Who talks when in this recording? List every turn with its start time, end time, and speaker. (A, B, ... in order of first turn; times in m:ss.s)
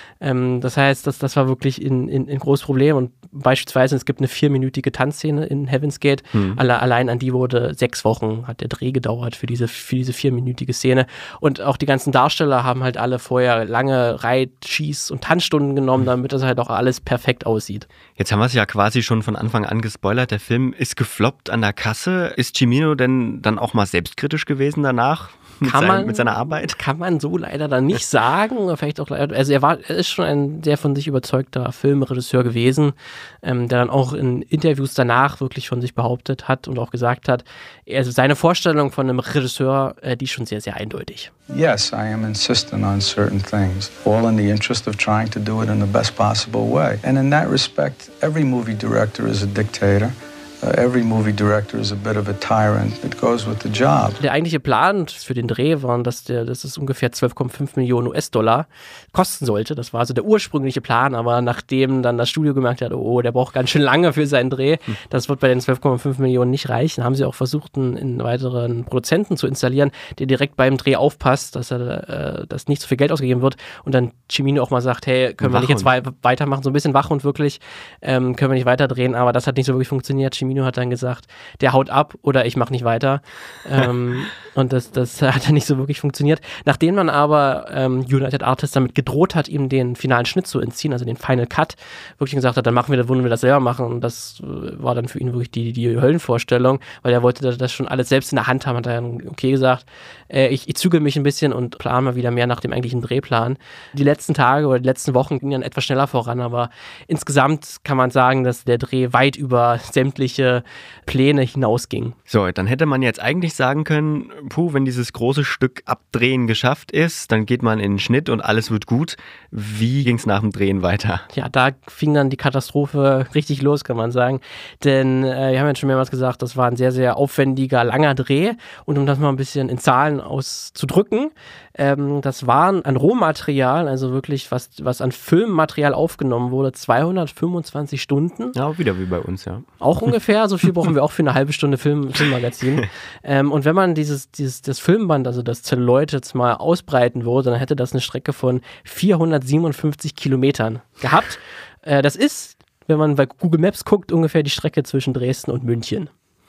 0:00.2-0:17.8 A
0:06.3-0:06.6 B
0:18.2-0:26.8 B
0:25.6-0:41.3 A
0:41.5-0:54.2 C
0:54.2-1:52.2 A
1:15.4-1:15.9 B
1:52.3-2:01.2 B
2:01.3-2:18.5 A
2:18.5-2:19.7 B
2:19.8-2:36.1 A